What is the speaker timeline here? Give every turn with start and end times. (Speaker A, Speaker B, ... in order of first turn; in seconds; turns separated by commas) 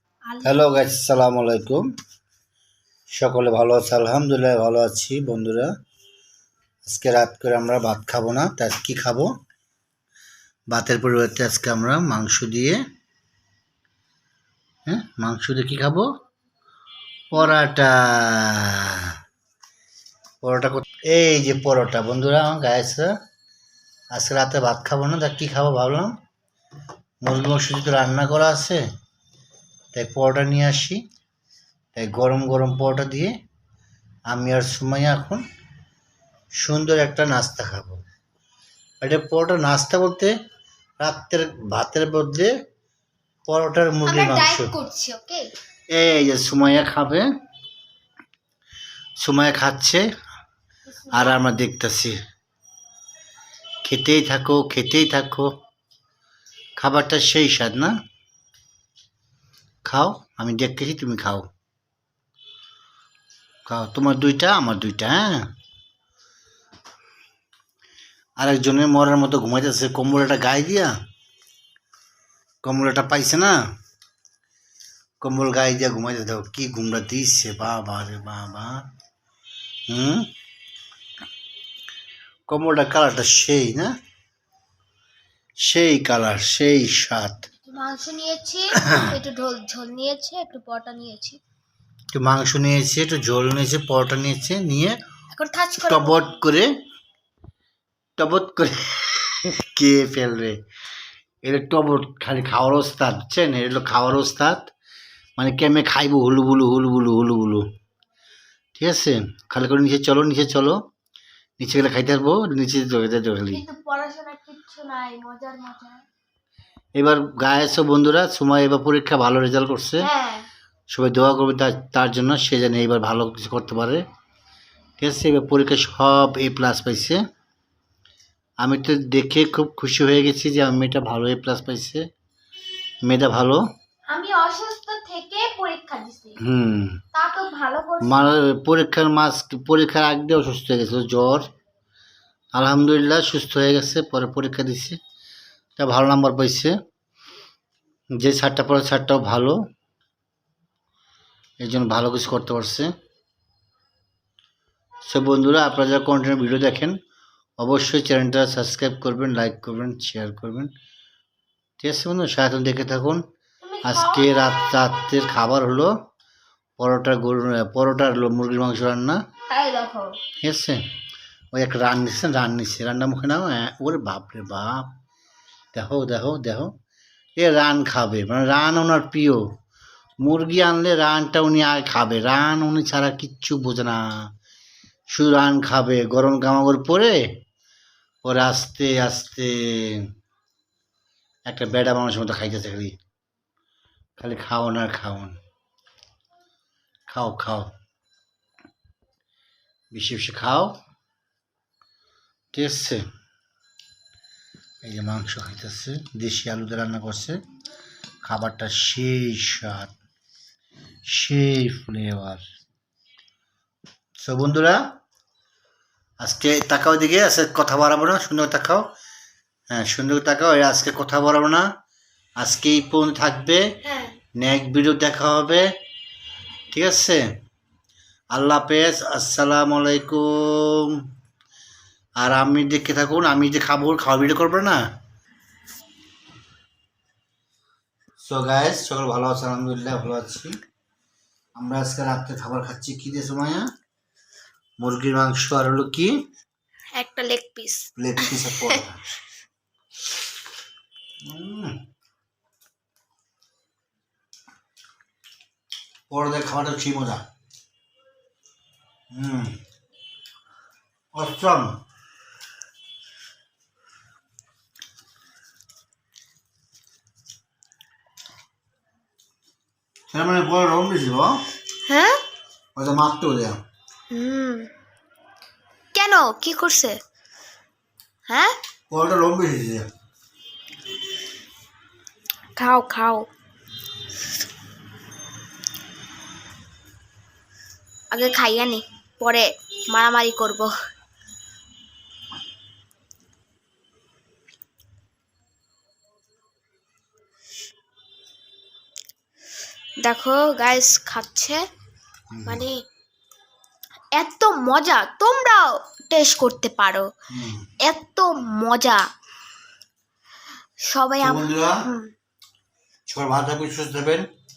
Speaker A: 0.3-0.6, Speaker B: 0.4-1.8, Speaker B: 3.1-5.7, Speaker B: 6.8-9.3, Speaker B: 10.7-12.8, Speaker B: 14.8-16.1, Speaker B: 17.3-19.1, Speaker B: 20.4-23.1, Speaker B: 24.1-26.1, Speaker B: 27.2-28.8, Speaker B: 29.9-31.0, Speaker B: 31.9-33.3, Speaker B: 34.3-35.4, Speaker B: 36.5-38.0, Speaker B: 39.0-40.3, Speaker B: 41.0-42.5, Speaker B: 43.5-44.7, Speaker A: 44.0-45.5, Speaker B: 45.9-47.2, Speaker B: 49.2-50.0, Speaker A: 50.9-51.4, Speaker B: 51.1-52.2, Speaker B: 53.8-55.5, Speaker B: 56.8-57.9, Speaker B: 59.8-61.5, Speaker B: 63.6-65.5, Speaker B: 68.4-70.9, Speaker B: 72.6-73.5, Speaker B: 75.2-78.8, Speaker B: 79.9-80.3, Speaker B: 82.5-83.9, Speaker B: 85.7-87.5, Speaker A: 87.6-91.4, Speaker B: 88.8-89.1, Speaker B: 92.1-95.0, Speaker A: 95.3-96.4, Speaker B: 95.9-96.7, Speaker B: 98.2-100.6, Speaker B: 101.4-104.7, Speaker B: 105.4-107.6, Speaker B: 108.8-110.8, Speaker B: 111.6-113.6, Speaker A: 113.5-116.0, Speaker B: 117.0-120.1, Speaker A: 120.0-120.5, Speaker B: 120.9-124.0, Speaker B: 125.0-127.2, Speaker B: 128.6-132.0, Speaker B: 133.0-133.6, Speaker A: 134.1-136.4, Speaker B: 136.4-137.0, Speaker A: 137.1-138.3, Speaker B: 138.0-141.5, Speaker B: 142.5-145.0, Speaker B: 145.8-146.7, Speaker B: 148.2-149.6, Speaker B: 151.6-152.9, Speaker B: 155.1-156.9, Speaker B: 157.6-160.7, Speaker B: 161.8-163.2, Speaker A: 163.6-164.5, Speaker B: 163.8-165.9, Speaker B: 166.8-169.2, Speaker A: 169.5-170.2, Speaker B: 170.4-170.8, Speaker B: 171.5-174.9, Speaker B: 175.7-176.7, Speaker B: 177.4-179.4, Speaker B: 180.2-184.3, Speaker B: 185.1-187.2, Speaker B: 188.2-190.1, Speaker B: 191.4-192.9, Speaker B: 194.2-195.3, Speaker B: 197.1-197.7, Speaker B: 199.9-200.7, Speaker B: 202.5-203.0, Speaker B: 204.8-207.4, Speaker B: 208.2-209.9, Speaker B: 211.1-212.4, Speaker B: 214.2-214.8, Speaker B: 216.2-218.8, Speaker B: 219.7-221.7, Speaker B: 222.4-223.6, Speaker A: 223.8-224.1, Speaker B: 224.4-225.7, Speaker B: 226.7-227.2, Speaker B: 228.3-231.0, Speaker B: 232.2-234.8, Speaker B: 238.2-240.6, Speaker B: 241.6-243.7, Speaker B: 244.8-246.1, Speaker A: 246.9-248.8, Speaker B: 248.0-249.0, Speaker B: 251.2-251.8, Speaker B: 256.1-257.2, Speaker B: 259.1-259.6, Speaker B: 261.1-261.8, Speaker B: 270.1-271.4, Speaker A: 271.9-272.2, Speaker B: 272.8-273.6, Speaker A: 274.1-274.7, Speaker A: 275.9-277.0, Speaker A: 278.3-278.5, Speaker B: 278.9-279.9, Speaker A: 282.6-283.3, Speaker A: 288.1-290.7, Speaker A: 300.0-301.6, Speaker B: 302.3-302.6, Speaker A: 302.4-302.8, Speaker A: 304.1-307.1, Speaker B: 307.3-307.7, Speaker A: 307.9-309.0, Speaker A: 310.9-312.1, Speaker B: 311.2-311.8, Speaker B: 313.1-314.3